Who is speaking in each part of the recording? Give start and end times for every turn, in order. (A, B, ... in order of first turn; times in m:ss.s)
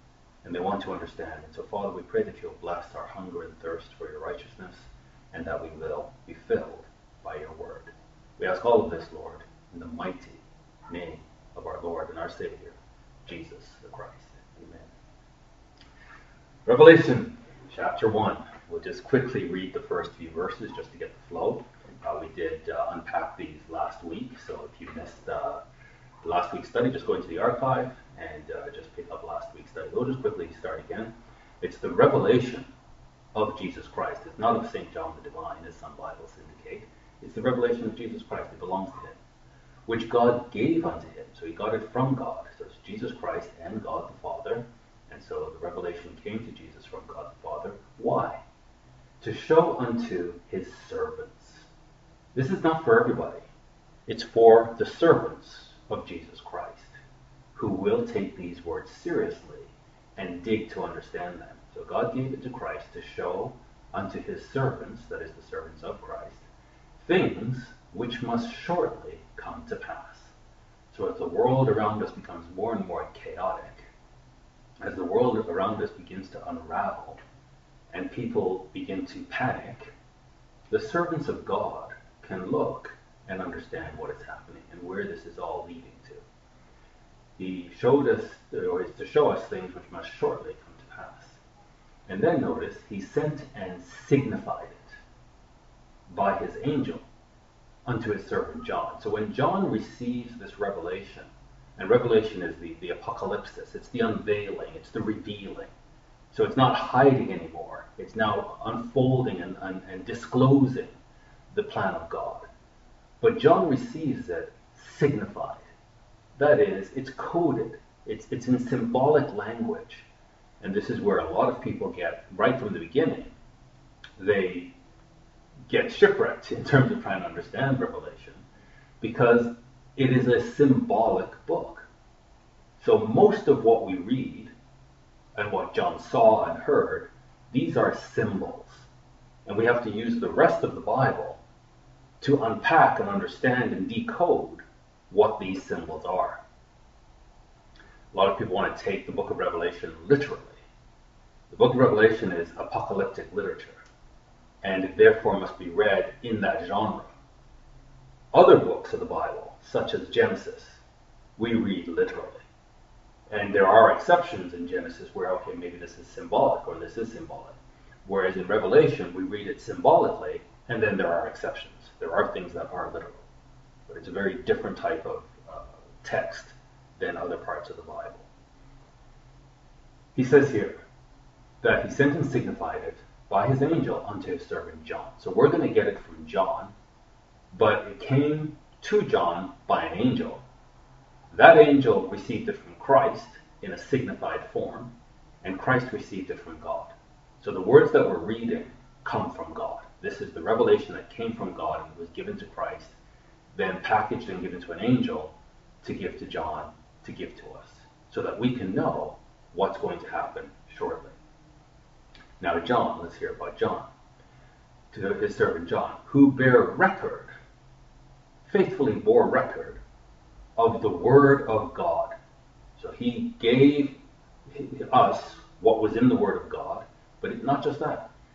0:00.4-0:14.9 A
0:16.7-0:25.6 A
0:26.2-0:32.7 A
0:33.3-0:39.2 A
0:39.9-0:48.4 A
0:49.2-0:51.7 A
0:52.4-0:53.5 A
0:54.1-0:57.0 A
0:57.6-1:06.4 A
1:07.0-1:10.3 A
1:10.9-1:13.9 A
1:14.8-1:17.2 A
1:17.9-1:19.9 A
1:20.7-1:26.2 A
1:27.4-1:31.4 A
1:32.1-1:35.0 A
1:36.1-1:37.0 A
1:37.9-1:45.7 A
1:46.3-1:51.0 A
1:51.5-1:52.5 A
1:53.2-1:55.6 A
1:56.4-2:00.1 A
2:00.6-2:03.3 A
2:04.2-2:04.7 A
2:05.7-2:08.4 A
2:09.0-2:11.9 A
2:12.8-2:14.5 A
2:15.4-2:18.9 A
2:19.4-2:21.4 A
2:22.2-2:26.4 A
2:28.1-2:30.6 A
2:31.5-2:33.8 A
2:34.6-2:37.1 A
2:38.3-2:40.8 A
2:41.4-2:42.4 A
2:43.3-2:53.2 A
2:53.9-2:58.3 A
3:00.2-3:00.8 A
3:01.6-3:06.7 A
3:07.5-3:10.4 A
3:11.3-3:14.9 A
3:15.4-3:23.0 A
3:23.5-3:31.2 A
3:32.4-3:33.9 A
3:34.9-3:37.3 A
3:38.4-3:39.8 A
3:40.6-3:42.2 A
3:42.8-3:44.0 A
3:44.5-3:48.1 A